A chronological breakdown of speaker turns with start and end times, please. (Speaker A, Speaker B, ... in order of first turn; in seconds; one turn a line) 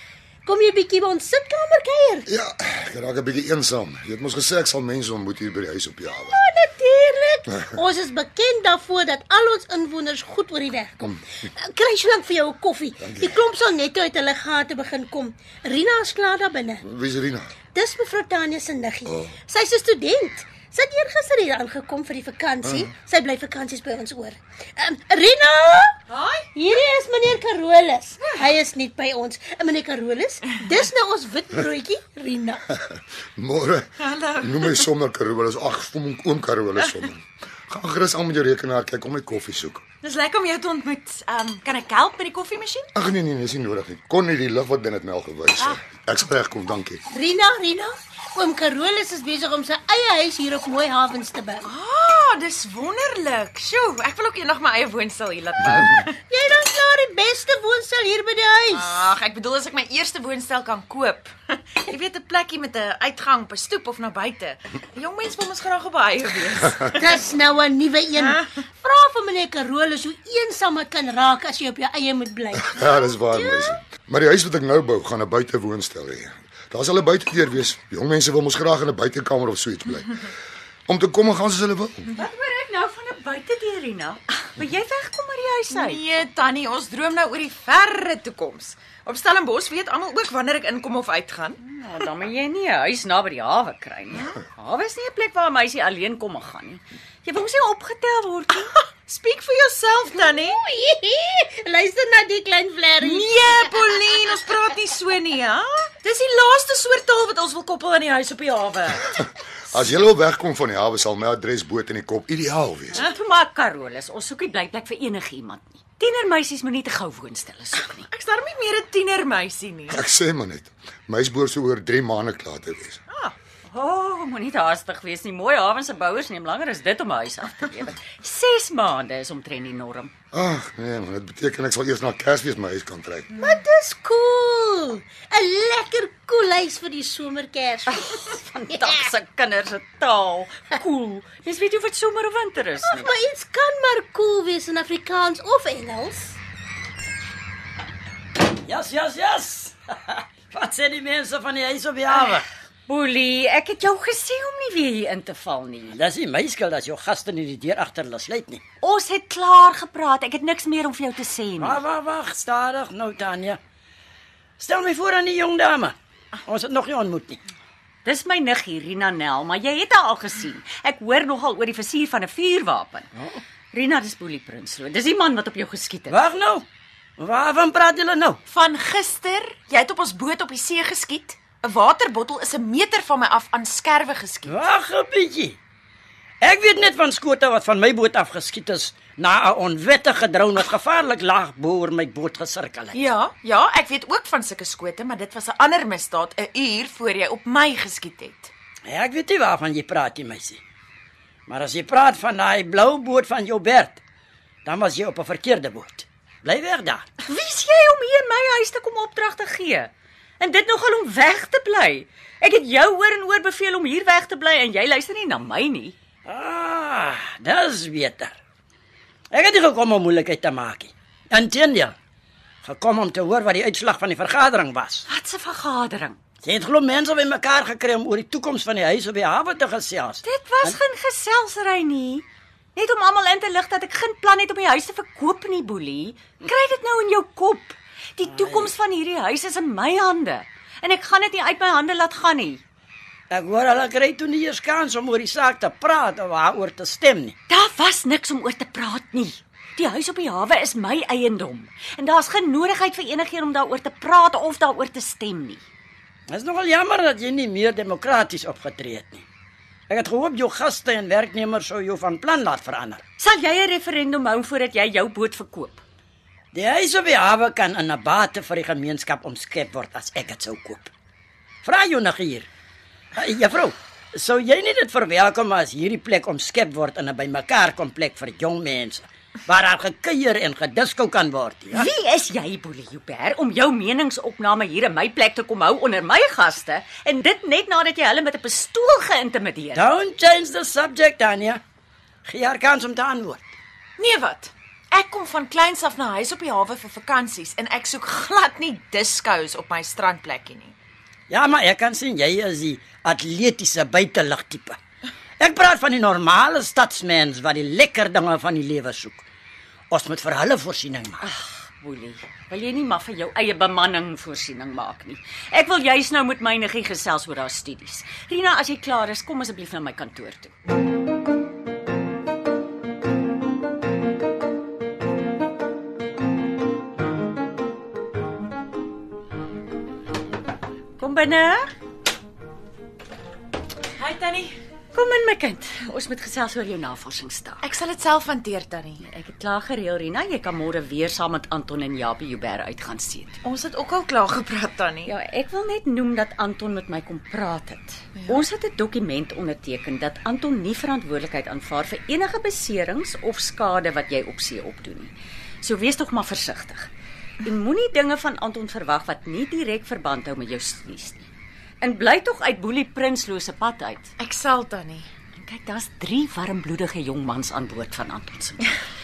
Speaker A: 0.5-2.3
Speaker B: 2.3-6.4
Speaker A: 6.2-16.8
Speaker B: 13.0-13.3
Speaker B: 16.8-17.5
Speaker A: 17.7-25.9
Speaker C: 26.1-26.4
Speaker A: 26.5-32.6
Speaker B: 32.7-33.9
Speaker C: 34.0-34.8
Speaker B: 34.4-39.8
Speaker C: 40.0-42.9
Speaker B: 42.9-47.0
Speaker A: 47.1-51.7
Speaker C: 51.6-56.1
Speaker A: 56.3-58.9
Speaker C: 58.7-67.0
Speaker A: 66.9-73.8
Speaker B: 72.5-80.2
Speaker B: 80.9-82.1
Speaker D: 82.2-86.0
Speaker C: 85.7-91.6
Speaker D: 91.6-98.7
Speaker C: 99.0-100.6
Speaker A: 100.1-104.0
Speaker C: 103.0-109.0
Speaker B: 109.7-113.0
Speaker D: 112.9-118.1
Speaker C: 117.8-120.0
Speaker B: 119.9-123.0
Speaker D: 123.7-130.1
Speaker B: 130.3-133.3
Speaker A: 133.3-138.1
Speaker D: 137.9-143.1
Speaker A: 138.7-139.1
Speaker A: 142.8-146.4
Speaker E: 148.6-152.4
Speaker D: 152.9-155.9
Speaker E: 155.9-158.6
Speaker D: 158.8-161.8
Speaker E: 161.6-163.6
Speaker E: 164.6-167.4
Speaker D: 168.0-173.1
Speaker D: 173.7-176.2
Speaker E: 176.1-176.7
Speaker E: 177.2-178.4
Speaker C: 178.5-184.6
Speaker E: 184.5-185.6
Speaker E: 186.4-193.0
Speaker C: 192.9-198.5
Speaker E: 198.8-200.6
Speaker E: 201.5-204.0
Speaker E: 204.6-207.0
Speaker D: 207.2-215.9
Speaker E: 216.2-218.3
Speaker E: 219.3-221.9
Speaker E: 222.6-225.0
Speaker D: 225.1-226.2
Speaker E: 226.4-230.8
Speaker D: 230.2-232.2
Speaker D: 232.8-242.6
Speaker E: 238.2-238.7
Speaker E: 243.3-247.3
Speaker D: 247.5-255.6
Speaker E: 256.3-259.2
Speaker E: 259.9-263.0
Speaker D: 263.2-265.8
Speaker E: 266.5-270.9
Speaker E: 271.6-272.5
Speaker E: 273.1-281.8
Speaker D: 281.7-289.9
Speaker E: 289.7-291.6
Speaker E: 292.2-293.5
Speaker C: 294.0-300.7
Speaker E: 301.3-304.8
Speaker E: 305.4-309.2
Speaker E: 309.9-311.2
Speaker D: 311.2-320.5
Speaker D: 331.0-331.7
Speaker C: 333.9-334.6
Speaker D: 334.9-337.7
Speaker C: 337.6-339.0
Speaker D: 339.0-343.4
Speaker C: 343.4-345.1
Speaker D: 345.0-356.9
Speaker C: 348.1-348.4
Speaker D: 357.4-361.2
Speaker D: 361.8-364.1
Speaker C: 364.2-365.1
Speaker D: 365.4-368.7